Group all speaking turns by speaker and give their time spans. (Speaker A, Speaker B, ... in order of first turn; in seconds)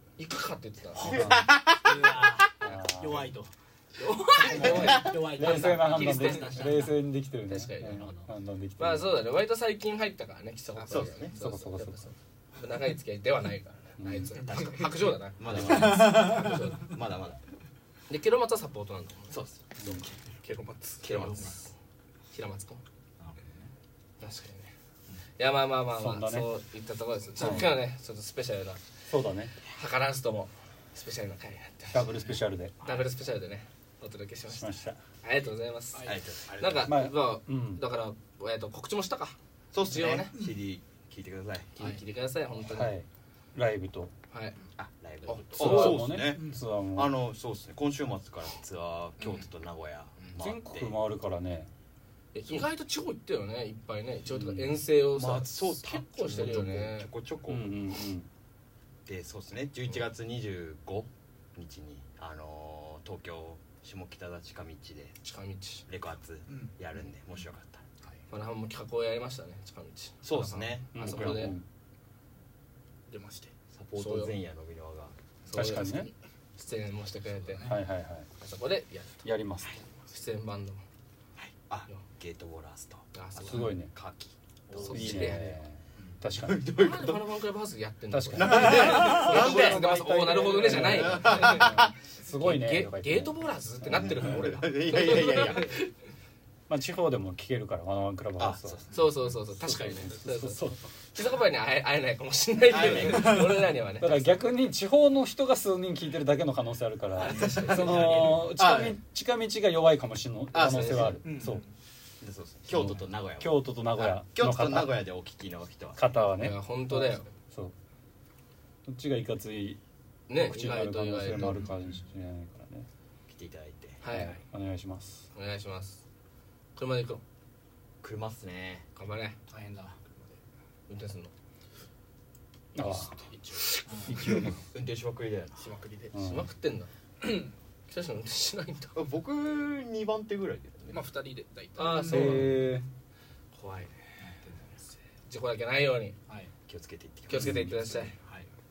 Speaker A: 0.2-1.3, 4.0-6.9, 7.5-8.2, 8.8-16.9, 18.1-19.4, 21.1-21.7, 22.3-22.8, 24.2-24.7, 25.4-28.8, 29.7-32.1, 32.8-40.3, 41.8-43.0, 44.3-44.6, 45.2-46.2, 52.3-57.1, 65.2-65.9, 68.3-71.6, 74.0-74.4, 75.5-77.9, 78.4-79.3, 80.1-80.8, 83.1-83.8, 84.7-85.6, 86.8-95.9, 98.9-104.4, 107.2-108.5, 110.6-111.2, 116.4-117.3, 120.3-121.6, 124.0-124.4, 125.3-126.0, 126.8-127.2, 129.0-129.4, 130.9-131.3, 136.2-136.9, 137.9-139.0, 141.8-142.6, 143.5-144.0, 145.2-146.2, 147.3-148.1
Speaker B: 1.0-2.4, 4.6-5.2, 10.9-11.3, 15.4-17.4, 19.3-20.1, 21.0-21.6, 36.0-37.0, 39.7-41.7, 44.8-51.0, 55.1-57.9, 59.1-65.2, 65.9-67.8, 70.2-71.5, 73.7-75.2, 81.4-85.4, 86.4-87.3, 88.3-89.8, 90.6-91.9, 93.9-95.8, 98.4-99.1, 102.7-103.6, 107.3-109.0, 110.5-111.2, 112.2-116.0, 123.3-124.0, 128.0-128.9, 134.7-135.6, 139.0-141.1, 146.7-148.1
Speaker C: 1.0-1.5, 2.6-3.3, 5.2-9.3, 11.3-12.1, 14.0-14.3, 26.0-26.5, 27.4-27.7, 29.1-29.5, 31.9-32.8, 34.5-35.0, 36.8-37.8, 42.7-44.1, 45.6-47.1, 50.4-51.7, 57.5-58.3, 70.9-71.7, 75.5-76.1, 77.6-78.3, 79.2-79.8, 83.5-83.9, 84.9-86.7, 88.1-94.5, 96.7-98.8, 99.6-100.8, 104.0-111.6, 112.7-115.0, 116.0-117.7, 118.8-119.8, 120.4-122.9, 124.1-125.2, 132.8-133.2, 134.1-134.6, 136.1-136.5, 142.1-142.8, 147.3-147.7
Speaker D: 1.1-3.5, 4.3-6.9, 8.0-8.2, 15.8-16.5, 23.2-23.7, 46.3-46.6, 77.4-77.8, 84.7-85.3, 86.0-86.2, 107.3-107.7, 111.2-111.7, 121.3-122.0, 129.5-130.0, 133.9-134.2, 144.2-144.8, 146.3-146.5, 148.1-148.5
Speaker E: 10.8-11.2, 20.4-21.6, 73.1-73.5, 130.1-130.4, 132.8-133.8, 135.6-136.2, 137.2-137.5, 140.9-142.4